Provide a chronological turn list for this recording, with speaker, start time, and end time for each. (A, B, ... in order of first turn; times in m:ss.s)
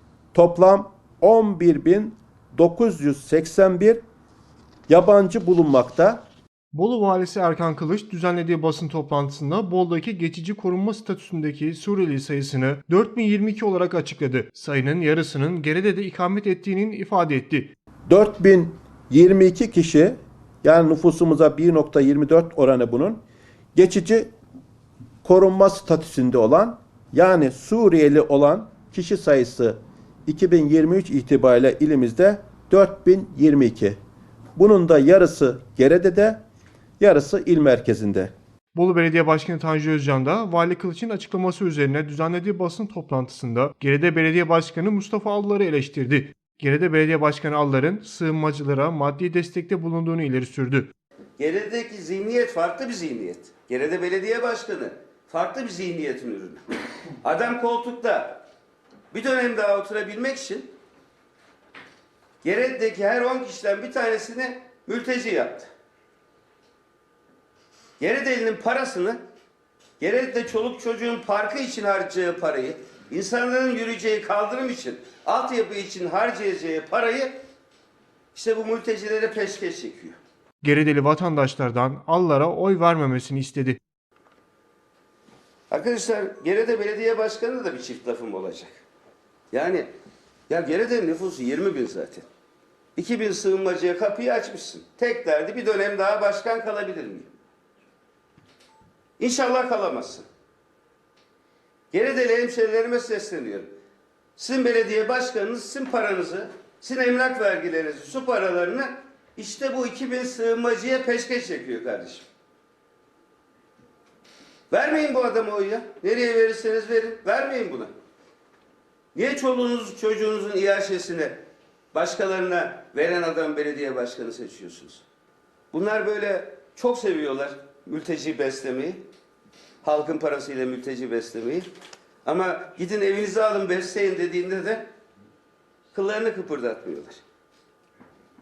0:00.3-0:04.0 A
0:04.9-0:06.2 A
0:06.7-0:17.7 B
0:18.1-0:23.2 A
0:23.8-0:24.3 A
0:25.2-0:34.0 A
0:34.6-0:36.4 A
0:37.0-0:38.3 A
0:38.8-0:50.9 B
0:51.4-0:56.6 C
0:57.2-0:58.4 C
0:59.1-1:00.7 C
1:02.4-1:05.7 C
1:08.0-1:09.2 C
1:10.0-1:17.4 C
1:18.4-1:20.2 C
1:20.6-1:23.8 B
1:25.7-1:28.8 C
1:29.5-1:29.9 C
1:30.5-1:32.3 C
1:33.0-1:37.3 C
1:39.2-1:40.2 C
1:41.9-1:43.7 C
1:44.4-1:52.3 C
1:54.7-1:57.9 C
1:59.2-2:01.4 C
2:01.9-2:05.0 C
2:05.7-2:09.0 C
2:09.8-2:11.7 C
2:12.2-2:14.9 C
2:15.9-2:17.2 C